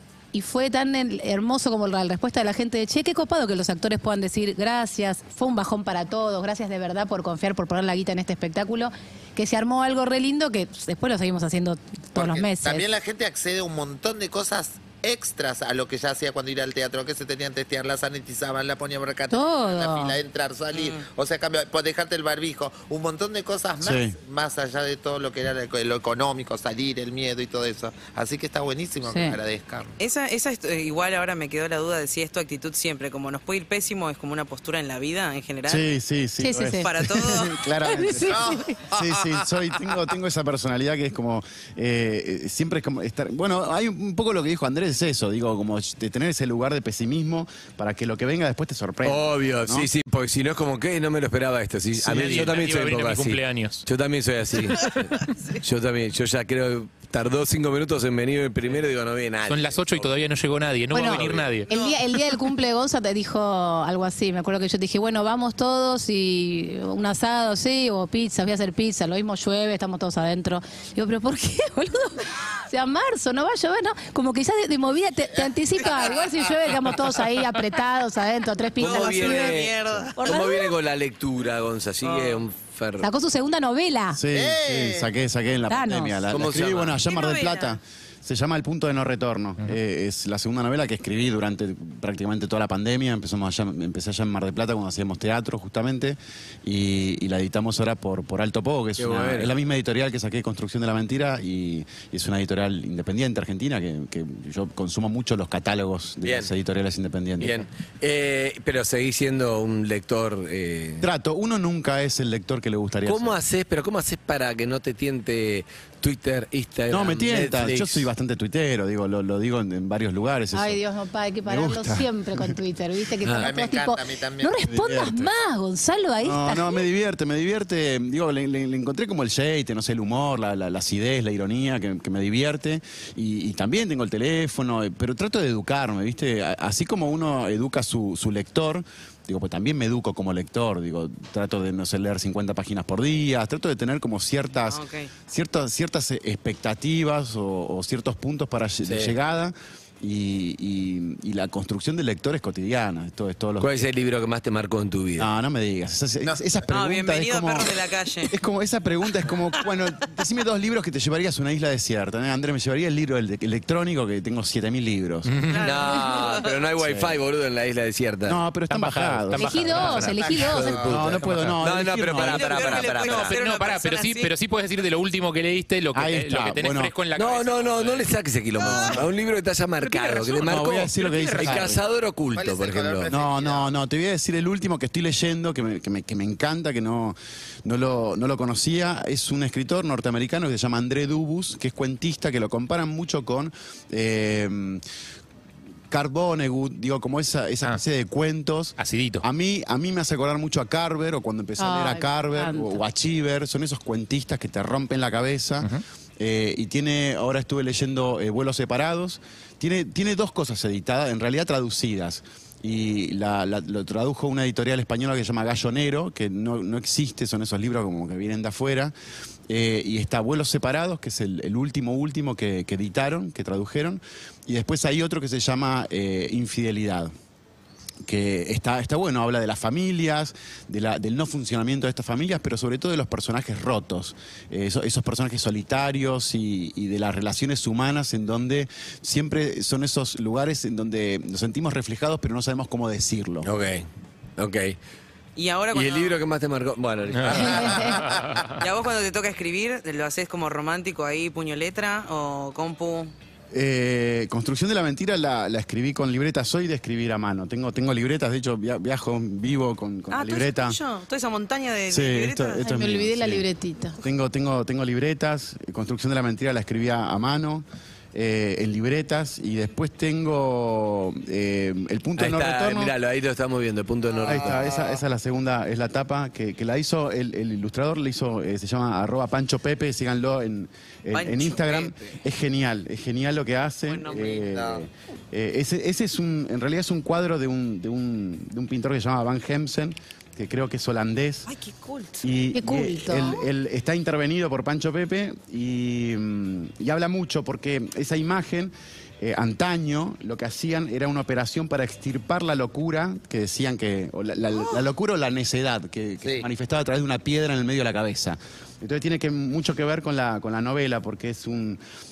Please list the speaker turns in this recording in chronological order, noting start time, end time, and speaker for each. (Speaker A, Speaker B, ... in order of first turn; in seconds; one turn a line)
Speaker A: 0.3-12.9
Speaker B: 12.2-29.9
Speaker A: 19.3-20.1
Speaker C: 20.7-21.0
Speaker D: 23.8-24.1
Speaker A: 29.1-29.4
Speaker C: 30.0-35.9
Speaker D: 35.6-49.9
Speaker A: 36.4-36.9
Speaker C: 36.8-37.7
Speaker A: 37.8-38.7
Speaker B: 38.2-39.5
Speaker E: 49.0-60.1
Speaker F: 52.0-53.8
Speaker F: 59.5-61.7
Speaker A: 60.9-79.6
Speaker E: 60.9-61.5
Speaker C: 61.7-62.0
Speaker E: 78.8-83.1
Speaker C: 78.8-80.2
Speaker A: 80.2-80.7
Speaker C: 82.0-82.4
Speaker A: 83.0-84.2
Speaker D: 84.1-107.7
Speaker B: 84.3-85.1
Speaker A: 85.7-86.2
Speaker E: 86.3-87.0
Speaker C: 87.0-87.8
Speaker E: 99.0-99.5
Speaker E: 106.2-106.5
Speaker E: 107.4-111.1
Speaker D: 111.0-113.4
Speaker E: 113.0-118.1
Speaker D: 116.9-120.8
Speaker A: 120.5-126.8
Speaker D: 121.5-122.5
Speaker E: 123.2-123.5
Speaker B: 123.4-124.6
Speaker D: 124.6-125.3
Speaker D: 126.2-153.9
Speaker C: 144.7-145.1
Speaker E: 148.8-149.1
Speaker E: 153.6-155.3
Speaker D: 155.2-165.3
Speaker C: 156.7-158.3
Speaker F: 165.3-165.7
Speaker C: 165.5-166.6
Speaker E: 165.6-168.4
Speaker D: 166.8-167.2
Speaker D: 168.2-170.1
Speaker F: 168.7-171.6
Speaker A: 169.3-170.8
Speaker B: 170.2-171.0
Speaker E: 170.4-173.4
Speaker D: 170.8-172.7
Speaker C: 172.1-174.3
Speaker F: 172.9-178.1
Speaker D: 175.9-176.9
Speaker E: 177.1-183.1
Speaker D: 178.6-179.0
Speaker F: 179.8-181.8
Speaker D: 180.4-181.8
Speaker B: 182.3-183.7
Speaker D: 183.1-194.8
Speaker D: 195.9-218.9
Speaker F: 198.8-199.2
Speaker A: 201.6-202.8
Speaker D: 219.5-227.1
Speaker D: 228.0-243.5
Speaker E: 243.4-244.8
Speaker C: 245.3-246.2
Speaker E: 245.7-248.0
Speaker F: 247.1-248.6
Speaker A: 247.3-248.1
Speaker C: 248.5-253.1
Speaker D: 253.5-260.8
Speaker C: 260.1-262.7
Speaker D: 261.9-263.4
Speaker A: 262.6-264.0
Speaker D: 264.0-272.9
Speaker E: 272.2-274.7
Speaker D: 274.2-291.5
Speaker C: 274.3-275.0
Speaker C: 281.1-281.9
Speaker C: 283.9-284.5
Speaker B: 284.5-284.8
Speaker C: 291.5-292.2
Speaker D: 292.2-311.8
Speaker A: 292.5-293.4